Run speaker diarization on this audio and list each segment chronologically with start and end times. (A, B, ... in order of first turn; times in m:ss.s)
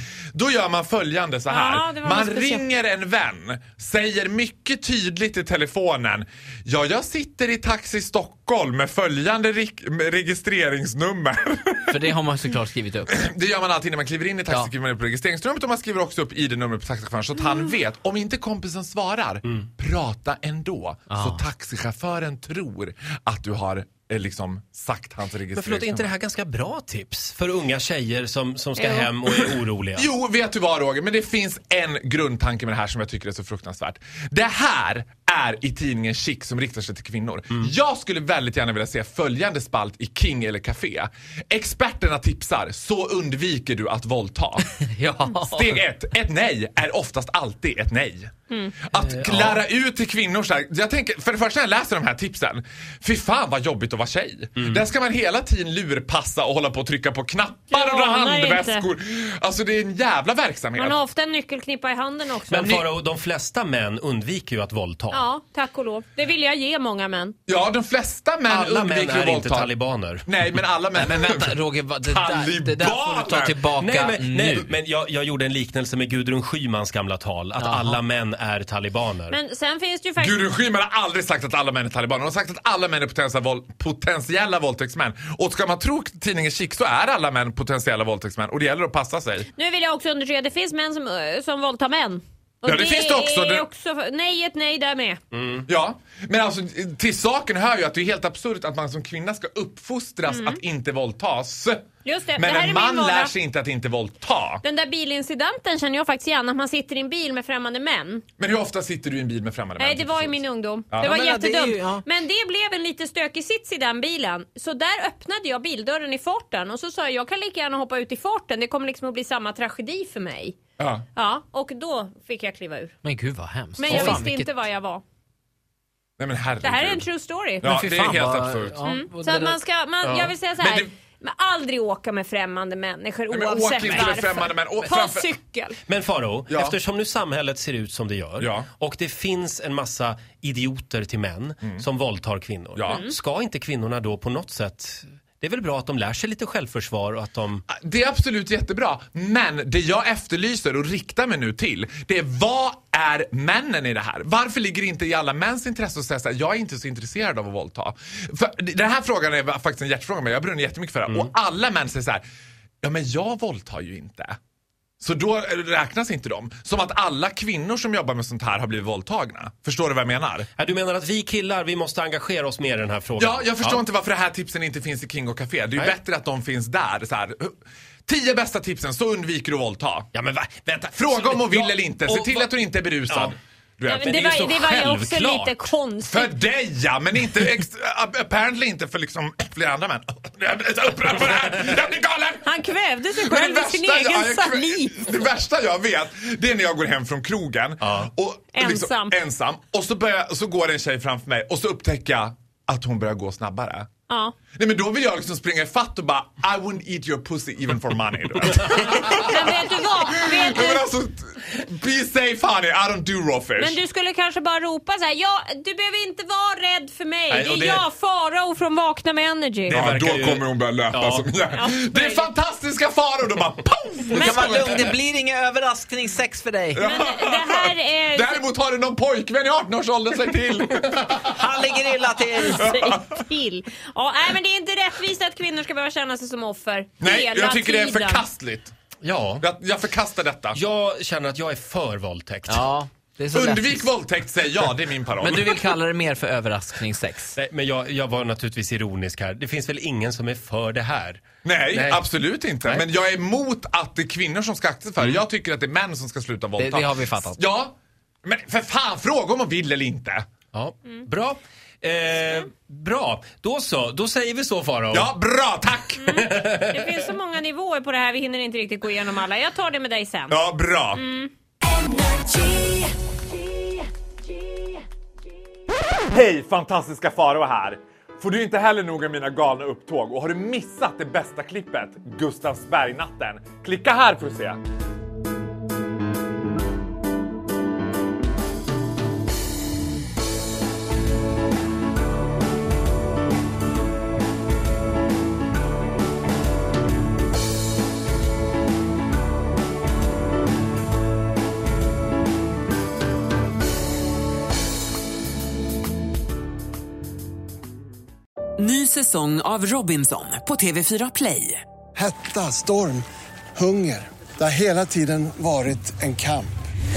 0:00.3-0:12.1 A
0:01.5-0:02.6 B
0:11.9-0:13.1 C
0:13.1-0:26.1 A
0:21.1-0:21.4 C
0:25.5-0:30.1 D
0:28.8-0:29.1 B
0:29.2-0:44.7 A
0:44.8-0:45.8 C
0:45.4-0:48.3 A
0:48.5-0:48.9 B
0:48.8-1:01.0 A
0:49.2-0:49.6 D
0:54.6-0:54.8 D
0:57.7-0:58.8 B
1:00.8-1:02.8 B
1:02.5-1:05.3 D
1:05.1-1:07.4 B
1:07.5-1:09.7 A
1:08.4-1:10.3 D
1:10.2-1:13.6 A
1:10.9-1:14.7 C
1:13.8-1:19.4 D
1:17.6-1:18.0 C
1:19.3-1:20.4 B
1:20.2-1:29.5 A
1:29.5-1:35.2 B
1:32.6-1:33.6 A
1:35.3-1:35.6 D
1:35.7-1:41.8 A
1:40.3-1:40.6 B
1:42.0-1:43.4 B
1:42.3-1:44.6 A
1:44.6-1:48.2 B
1:48.4-1:51.2 A
1:49.8-2:00.6 B
1:51.0-1:52.0 C
2:00.8-2:01.0 A
2:01.2-2:03.0 B
2:03.0-2:04.5 C
2:03.8-2:05.0 B
2:06.2-2:07.1 A
2:06.6-2:07.7 B
2:07.6-2:08.8 A
2:07.6-2:09.6 C
2:08.8-2:15.8 B
2:10.0-2:10.4 D
2:10.6-2:10.9 A
2:13.3-2:15.3 A
2:15.9-2:27.6 D
2:16.5-2:16.8 A
2:18.4-2:18.7 A
2:22.7-2:23.0 A
2:22.8-2:23.1 B
2:27.7-2:42.2 A
2:42.8-2:44.4 A
2:45.0-2:50.5 A
2:50.6-2:53.8 D
2:53.2-2:57.5 A
2:58.1-3:00.1 A
3:00.1-3:05.5 D
3:00.9-3:05.5 A
3:03.9-3:06.4 B
3:06.0-3:23.9 A
3:12.4-3:15.0 B
3:18.5-3:19.2 B
3:24.1-3:24.4 B
3:24.5-3:33.8 A
3:28.8-3:30.9 B
3:33.6-3:39.8 B
3:37.3-3:37.8 D
3:39.7-3:44.9 A
3:39.7-3:41.4 D
3:41.5-3:42.3 B
3:44.1-3:46.8 C
3:44.2-3:44.4 B
3:46.7-3:51.7 A
3:46.8-3:48.4 B
3:51.2-3:52.6 C
3:52.4-3:58.2 B
3:52.5-3:53.2 A
3:57.0-3:58.7 A
3:59.0-3:59.5 D
3:59.4-4:00.6 A
4:00.5-4:02.7 D
4:02.4-4:04.1 C
4:03.3-4:05.7 A
4:04.6-4:07.4 C
4:07.3-4:12.9 D
4:11.4-4:20.2 A
4:16.6-4:17.4 C
4:20.5-4:25.1 D
4:24.9-4:26.2 A
4:26.0-4:30.4 B
4:26.1-4:27.1 D
4:30.3-4:31.0 A
4:30.9-4:31.3 B
4:36.1-4:44.6 A
5:08.6-5:11.6 E
5:12.0-5:13.0 F
5:13.6-5:16.5 F